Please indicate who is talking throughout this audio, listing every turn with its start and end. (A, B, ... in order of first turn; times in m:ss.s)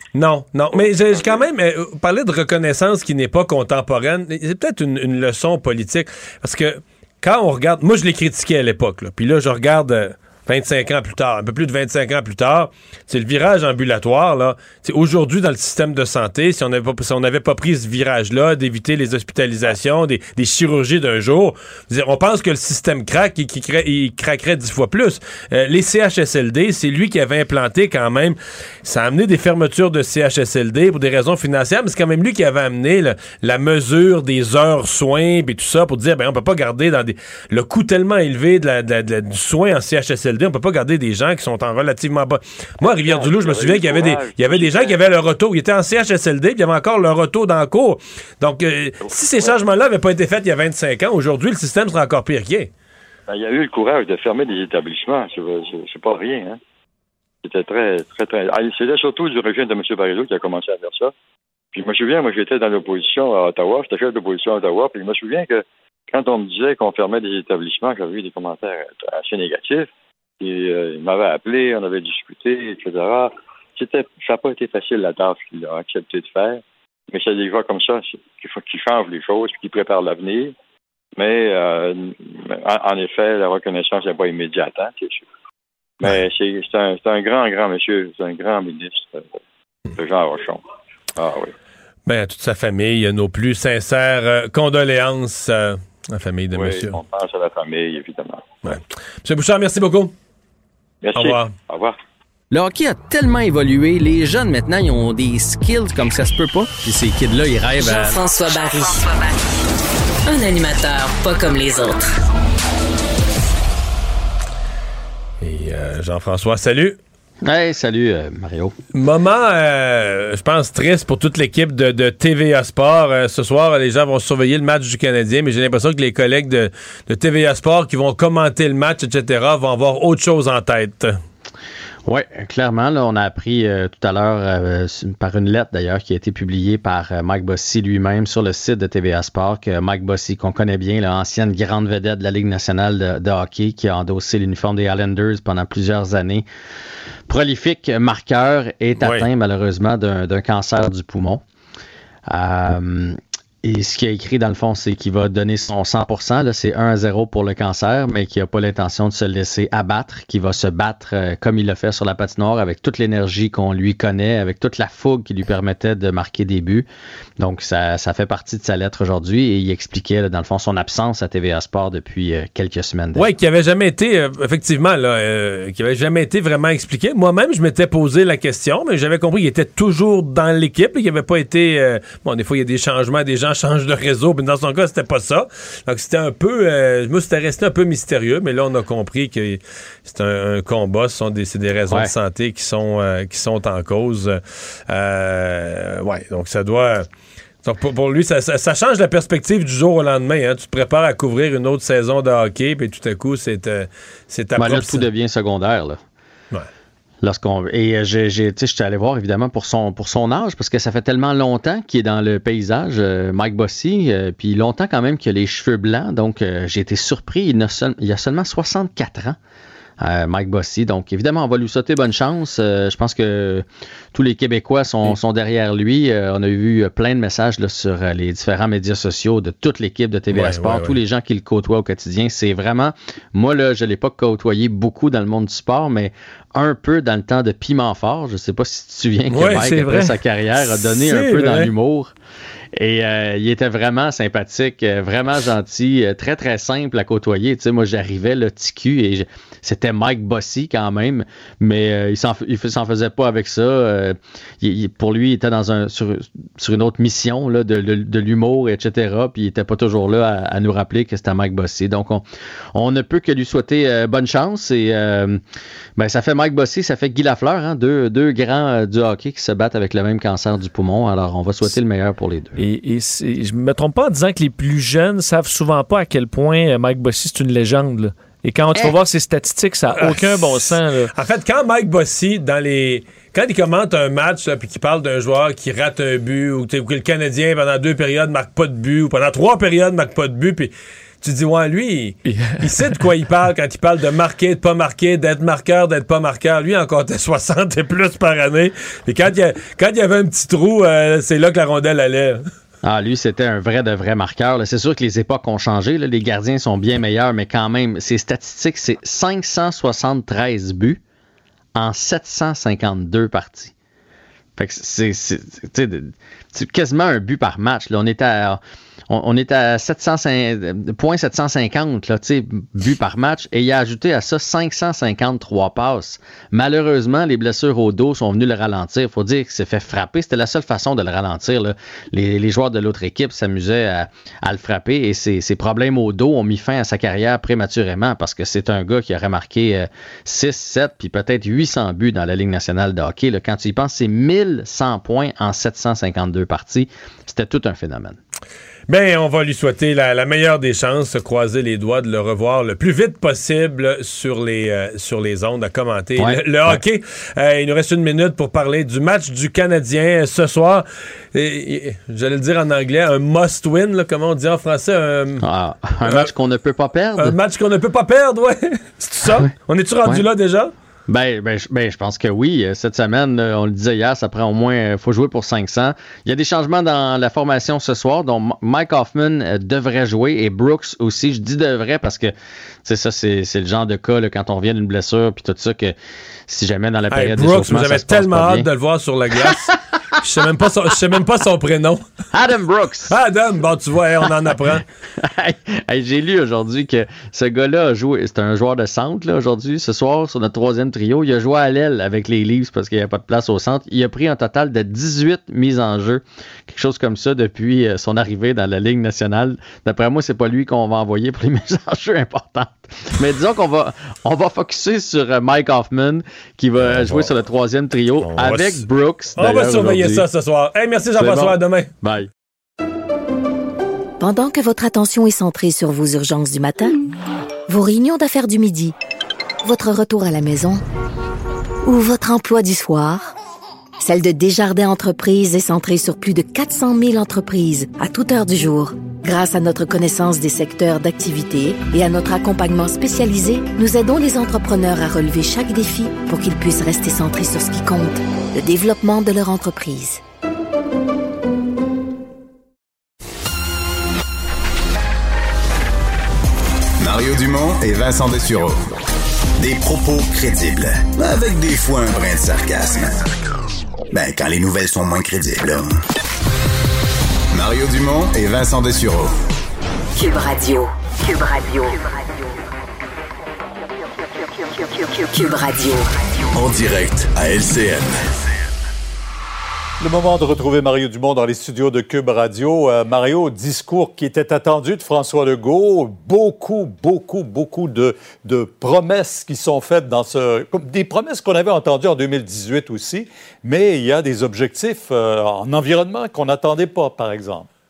0:00.1-0:52.7 A
0:00.7-0:01.4 B
0:42.8-0:45.1 B
0:49.0-0:49.6 B
0:53.3-0:56.6 B
0:57.4-1:01.1 B
1:01.7-1:09.9 B
1:10.4-1:20.5 B
1:21.2-1:25.2 B
1:26.0-1:29.4 B
1:29.9-1:30.6 B
1:31.2-1:31.5 B
1:32.1-1:37.0 A
1:36.5-1:38.5 B
1:38.6-1:40.1 A
1:41.0-1:42.0 B
1:41.2-1:41.5 A
1:42.5-1:48.2 C
1:47.8-1:49.1 D
1:50.2-1:52.1 D
1:55.4-1:57.0 A
1:57.4-1:58.7 E
1:58.9-2:11.2 A
2:12.0-2:26.4 E
2:27.3-2:31.4 E
2:29.0-2:29.3 A
2:32.3-2:46.8 E
2:47.4-2:53.3 E
2:53.1-3:17.0 A
3:17.6-3:25.0 A
3:24.6-3:26.0 E
3:27.2-3:39.4 E
3:40.0-4:02.1 E
3:50.3-3:51.0 A
3:59.3-3:59.7 A
3:59.6-4:00.2 F
4:00.6-4:01.7 A
4:02.8-4:22.2 E
4:22.7-4:25.4 E
4:26.0-4:32.6 E
4:32.6-4:41.1 F
4:39.9-5:02.4 A
4:52.2-4:53.0 F
5:02.8-5:11.0 E
5:11.8-5:13.7 E
5:14.6-5:48.2 E
5:48.9-6:05.4 A
5:56.2-5:56.8 E
6:05.4-6:07.3 E
6:07.2-6:10.7 A
6:11.1-6:22.3 E
6:22.8-6:25.9 E
6:26.5-6:28.7 E
6:27.1-6:32.0 A
6:29.5-6:29.7 E
6:32.3-6:33.1 E
6:33.1-6:34.8 A
6:35.2-7:00.2 E
6:56.8-6:57.3 A
6:58.2-7:01.9 A
7:01.2-7:02.3 E
7:04.2-7:07.0 G
7:07.7-7:08.9 G
7:09.6-7:10.8 G
7:11.8-7:13.3 G
7:14.0-7:30.2 G
7:37.0-7:38.8 H
7:39.6-7:43.2 H
7:44.1-7:45.9 H
7:47.5-7:49.3 H
7:50.2-7:50.9 G
7:50.2-7:52.4 D
7:55.2-7:56.0 D
7:55.3-7:56.0 G
7:56.5-7:58.2 H
8:00.0-8:17.7 I